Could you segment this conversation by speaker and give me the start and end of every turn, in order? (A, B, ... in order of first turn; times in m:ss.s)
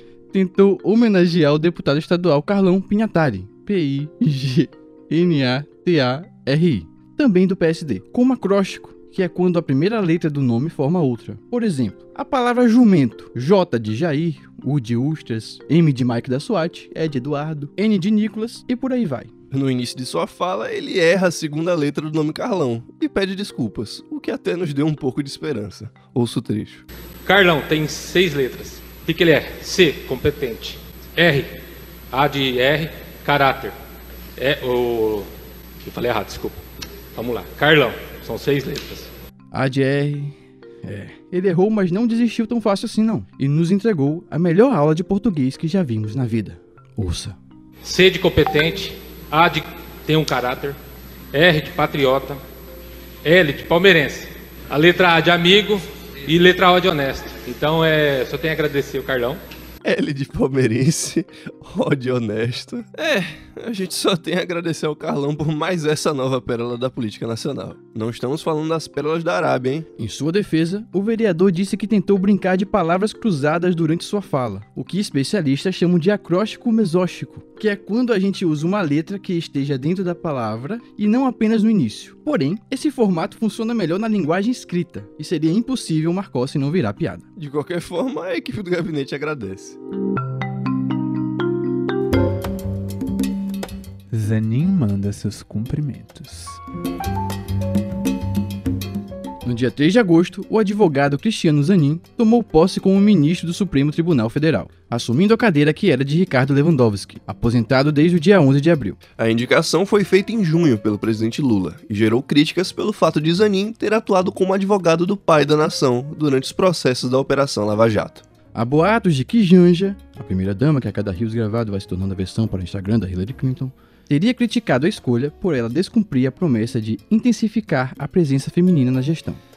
0:00.3-0:19.3 A
0:19.5-0:26.8 B
0:27.3-0:31.6 C
0:32.1-0:33.8 C
0:34.4-0:35.3 C
0:35.8-0:36.6 C
0:37.2-0:39.1 C
0:39.5-0:47.4 A
0:47.8-0:50.8 C
0:51.3-0:52.4 C
0:53.2-0:59.4 C
0:59.8-1:09.9 B
1:10.0-1:27.3 A
1:27.4-1:29.8 B
1:34.1-1:36.6 D
1:39.4-1:49.0 A
1:49.2-1:58.2 B
1:58.5-2:09.4 A